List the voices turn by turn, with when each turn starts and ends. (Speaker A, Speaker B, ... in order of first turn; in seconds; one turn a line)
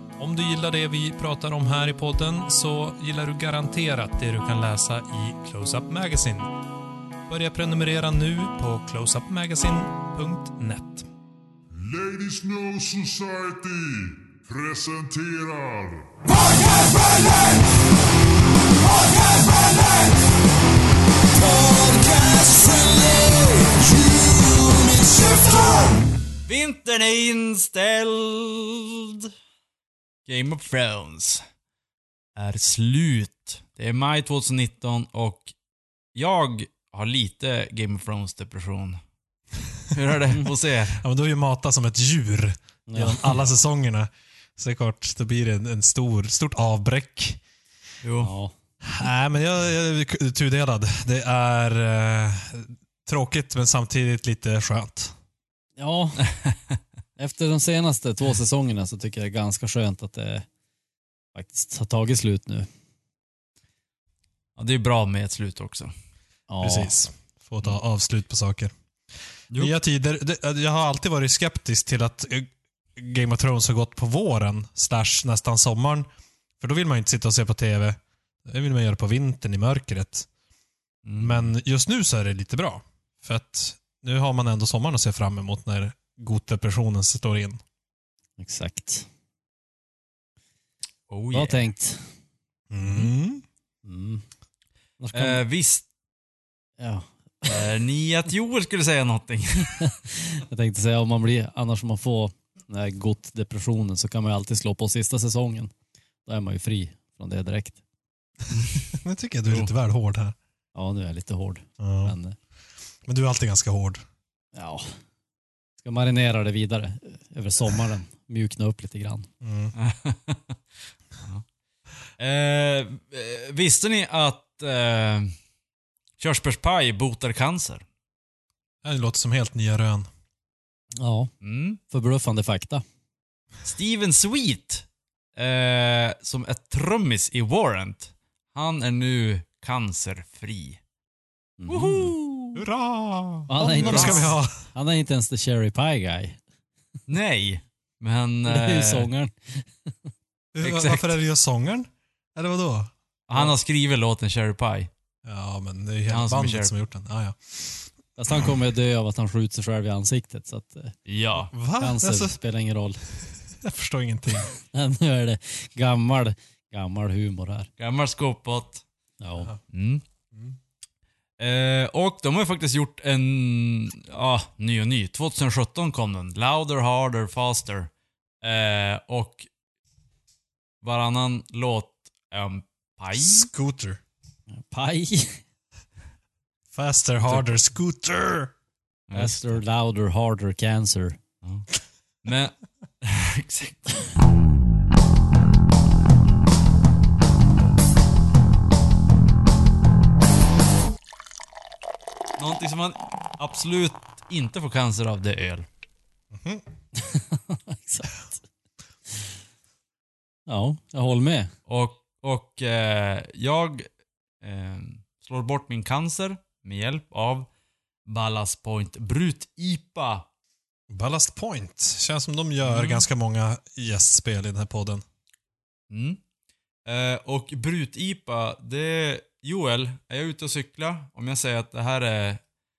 Speaker A: 0.2-6.6
Speaker A: 7.3-11.1
Speaker B: 11.7-16.4
Speaker B: 21.9-23.0
Speaker C: 22.8-23.5
Speaker B: 25.0-25.5
Speaker C: 26.5-29.3
Speaker C: 30.3-31.4
Speaker C: 32.4-35.5
Speaker C: 36.1-39.0
Speaker C: 39.9-41.0
Speaker A: 41.0-47.4
Speaker D: 42.9-43.2
Speaker C: 48.0-48.3
Speaker D: 48.2-48.5
Speaker A: 48.8-55.1
Speaker D: 55.8-56.3
Speaker D: 57.2-60.5
Speaker D: 61.4-62.7
Speaker C: 64.6-65.9
Speaker D: 66.5-66.9
Speaker A: 66.6-68.7
Speaker A: 69.5-76.1
Speaker A: 76.6-80.3
Speaker C: 81.0-81.5
Speaker A: 81.2-87.6
Speaker D: 88.4-89.1
Speaker C: 91.1-91.6
Speaker D: 91.3-92.1
Speaker A: 92.7-93.4
Speaker D: 93.8-94.2
Speaker D: 95.0-95.4
Speaker C: 95.1-95.8
Speaker D: 96.8-97.7
Speaker C: 97.5-99.9
Speaker D: 99.8-105.7
Speaker D: 106.2-107.8
Speaker C: 108.5-108.9
Speaker A: 108.9-110.3
Speaker D: 110.8-112.4
Speaker A: 111.8-112.2
Speaker A: 113.0-114.0
Speaker D: 114.5-115.0
Speaker D: 115.8-119.3
Speaker A: 119.4-119.8
Speaker C: 119.8-120.6
Speaker C: 122.2-125.3
Speaker C: 126.2-127.8
Speaker A: 128.8-130.1
Speaker D: 131.0-131.3
Speaker C: 131.4-131.8
Speaker D: 131.9-132.8
Speaker C: 133.6-140.8
Speaker D: 141.6-142.1
Speaker C: 141.7-142.6
Speaker A: 142.6-144.7
Speaker D: 143.5-146.4
Speaker C: 143.6-144.3
Speaker C: 147.1-149.1
Speaker D: 148.5-149.7
Speaker A: 150.5-153.6
Speaker C: 150.6-151.2
Speaker C: 153.3-154.9
Speaker A: 155.2-157.9
Speaker C: 156.1-156.7
Speaker D: 158.2-160.9
Speaker C: 161.1-161.5
Speaker A: 161.5-162.4
Speaker D: 161.8-163.0
Speaker A: 163.6-164.5
Speaker D: 164.7-167.7
Speaker C: 167.8-168.8
Speaker D: 169.2-169.5
Speaker C: 169.7-170.0
Speaker A: 170.3-170.6
Speaker C: 171.4-177.9
Speaker C: 178.4-179.5
Speaker C: 180.8-183.5
Speaker A: 183.1-184.0
Speaker D: 184.5-185.4
Speaker A: 186.7-188.5
Speaker C: 187.3-187.6
Speaker C: 189.1-189.6
Speaker D: 189.1-191.2
Speaker C: 192.2-194.1
Speaker C: 202.4-205.7
Speaker A: 206.3-206.6
Speaker D: 207.0-208.4
Speaker D: 210.5-211.5
Speaker C: 211.7-213.9
Speaker C: 214.4-217.5
Speaker C: 218.1-220.2
Speaker A: 220.9-225.0
Speaker C: 222.6-223.1
Speaker C: 225.9-226.2
Speaker C: 226.9-232.4